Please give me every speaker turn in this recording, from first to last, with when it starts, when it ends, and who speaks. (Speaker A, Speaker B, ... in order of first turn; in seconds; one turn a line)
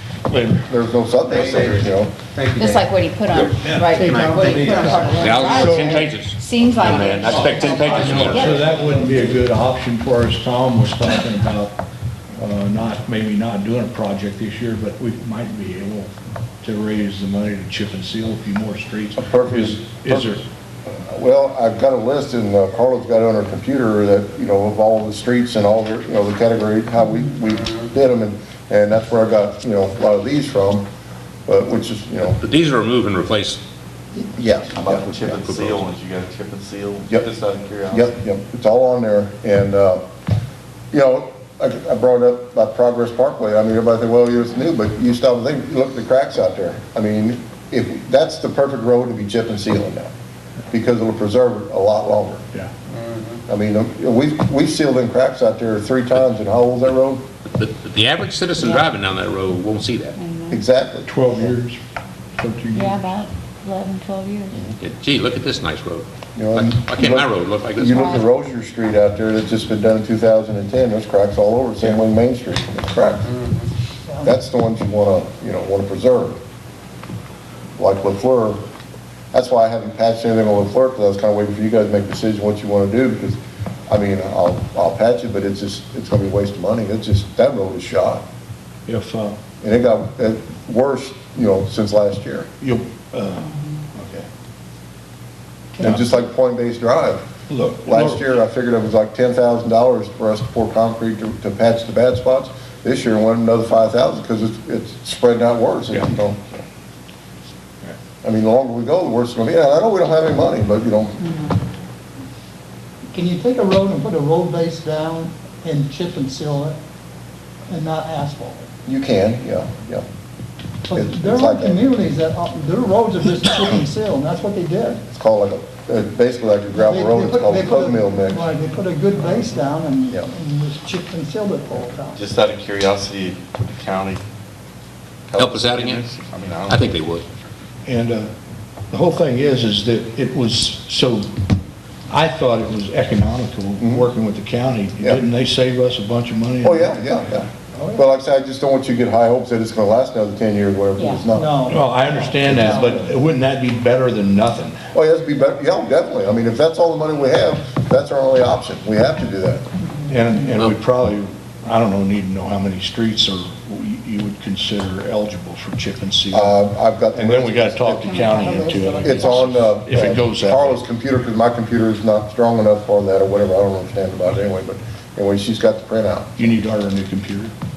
Speaker A: 0.4-2.1
Speaker B: 1.3-2.8
Speaker C: 2.5-8.9
Speaker B: 3.4-5.3
Speaker D: 3.7-4.0
Speaker E: 4.0-5.5
Speaker F: 5.1-8.6
Speaker D: 5.5-5.9
Speaker D: 7.8-11.8
Speaker D: 12.3-16.1
Speaker D: 16.6-20.4
Speaker A: 19.2-30.9
Speaker A: 31.4-32.4
Speaker F: 32.4-33.6
Speaker A: 34.4-35.0
Speaker B: 34.7-38.1
Speaker F: 34.8-35.9
Speaker A: 37.9-40.0
Speaker A: 40.9-50.1
Speaker A: 50.7-52.4
Speaker A: 53.5-57.2
Speaker F: 57.5-60.2
Speaker C: 58.6-58.8
Speaker C: 60.1-60.6
Speaker A: 60.5-61.5
Speaker D: 61.1-61.8
Speaker D: 62.4-63.2
Speaker C: 62.7-64.6
Speaker F: 64.8-68.2
Speaker A: 66.3-73.3
Speaker C: 67.9-68.3
Speaker E: 74.1-74.3
Speaker A: 74.2-76.4
Speaker A: 77.8-78.6
Speaker A: 79.3-88.2
Speaker D: 88.9-89.4
Speaker A: 89.6-92.5
Speaker D: 92.6-94.2
Speaker A: 95.8-97.2
Speaker D: 97.5-98.2
Speaker A: 97.8-106.6
Speaker A: 108.2-111.2
Speaker E: 113.1-116.8
Speaker E: 117.7-118.7
Speaker A: 118.8-120.0
Speaker E: 120.9-125.0
Speaker A: 120.9-121.8
Speaker A: 125.1-128.5
Speaker E: 126.7-132.2
Speaker B: 132.1-134.2
Speaker B: 135.3-136.9
Speaker F: 135.4-136.0
Speaker F: 136.7-137.2
Speaker D: 137.8-138.3
Speaker D: 138.9-141.3
Speaker D: 142.1-146.9
Speaker A: 143.8-144.1
Speaker A: 145.0-145.2
Speaker A: 146.6-151.7
Speaker E: 147.7-148.1
Speaker C: 151.0-151.3
Speaker E: 151.3-153.1
Speaker D: 151.7-154.8
Speaker A: 152.4-153.1
Speaker A: 154.9-159.6
Speaker C: 159.8-160.1
Speaker D: 160.1-166.6
Speaker A: 166.3-176.3
Speaker D: 167.1-170.8
Speaker E: 168.1-169.2
Speaker D: 176.4-177.5